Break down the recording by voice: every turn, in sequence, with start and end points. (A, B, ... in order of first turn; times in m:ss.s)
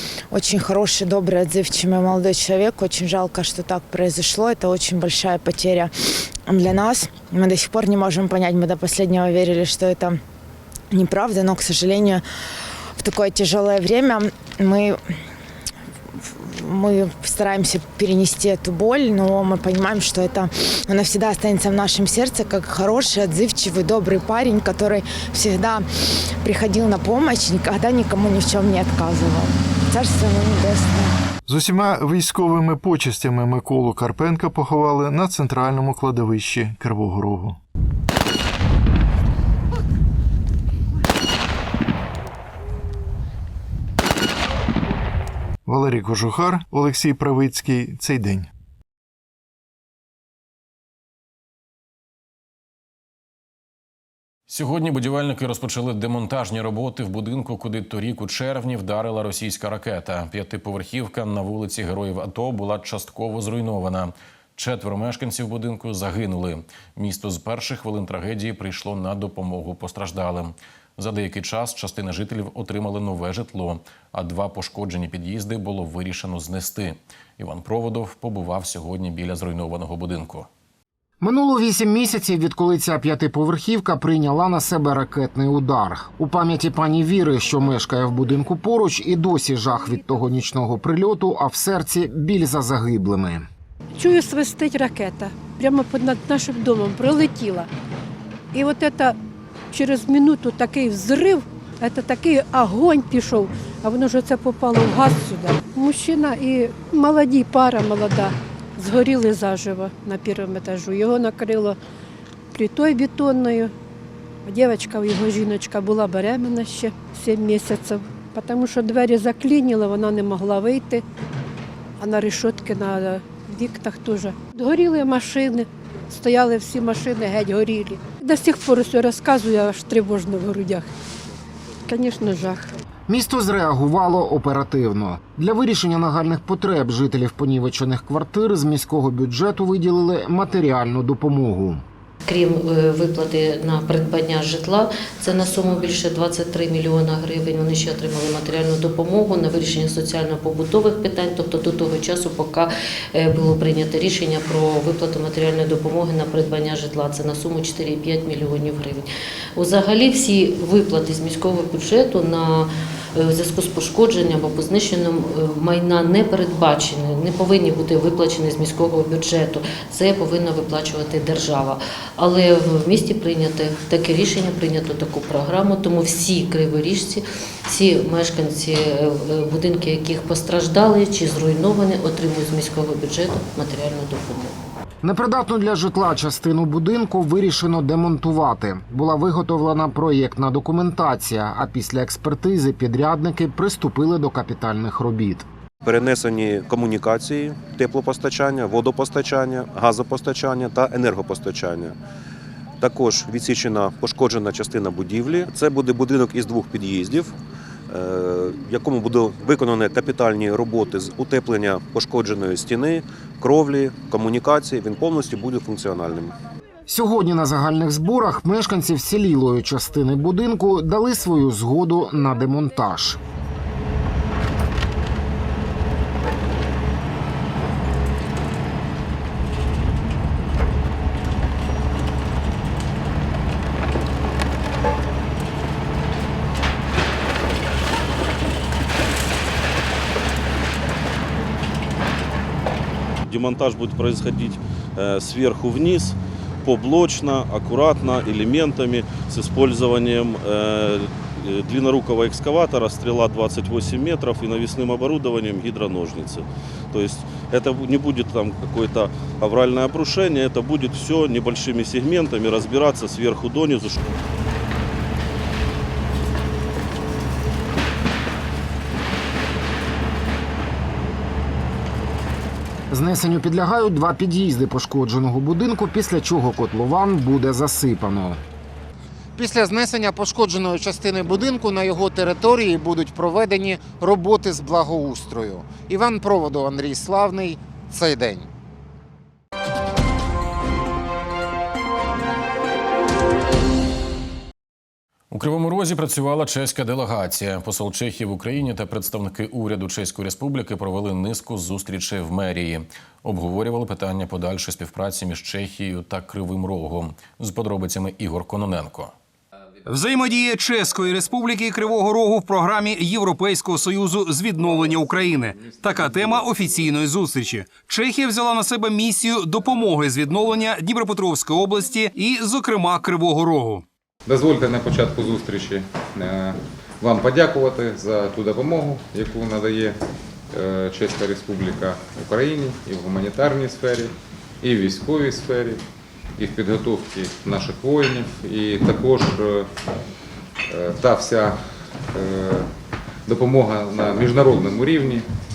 0:00.3-0:10.2 A
0:10.9-0:12.2 A
0:13.0-0:15.0 A
0:16.2-0:31.2 A
0:31.5-0:37.6 B
0:45.7-0:48.5 B
0:54.5-1:20.5 C
1:21.2-1:33.5 D
1:34.0-1:37.7 E
1:38.5-1:39.2 E
1:39.7-1:51.8 E
1:52.5-1:53.7 E
1:54.5-2:01.0 E
2:02.0-2:10.9 E
2:11.9-2:12.7 E
2:13.1-2:21.8 D
2:22.2-3:04.6 F
3:05.0-3:15.5 D
3:15.8-3:22.0 G
3:22.8-3:27.3 G
3:27.9-3:36.4 G
3:36.9-3:43.2 D
4:03.2-4:24.0 H
4:32.9-4:38.4 D
4:39.4-4:48.5 D
4:55.3-5:09.1 C
5:09.9-5:23.8 I
5:24.2-5:30.0 J
5:30.5-5:35.8 J
5:36.4-5:39.7 J
5:40.7-5:42.7 J
5:43.3-5:45.3 J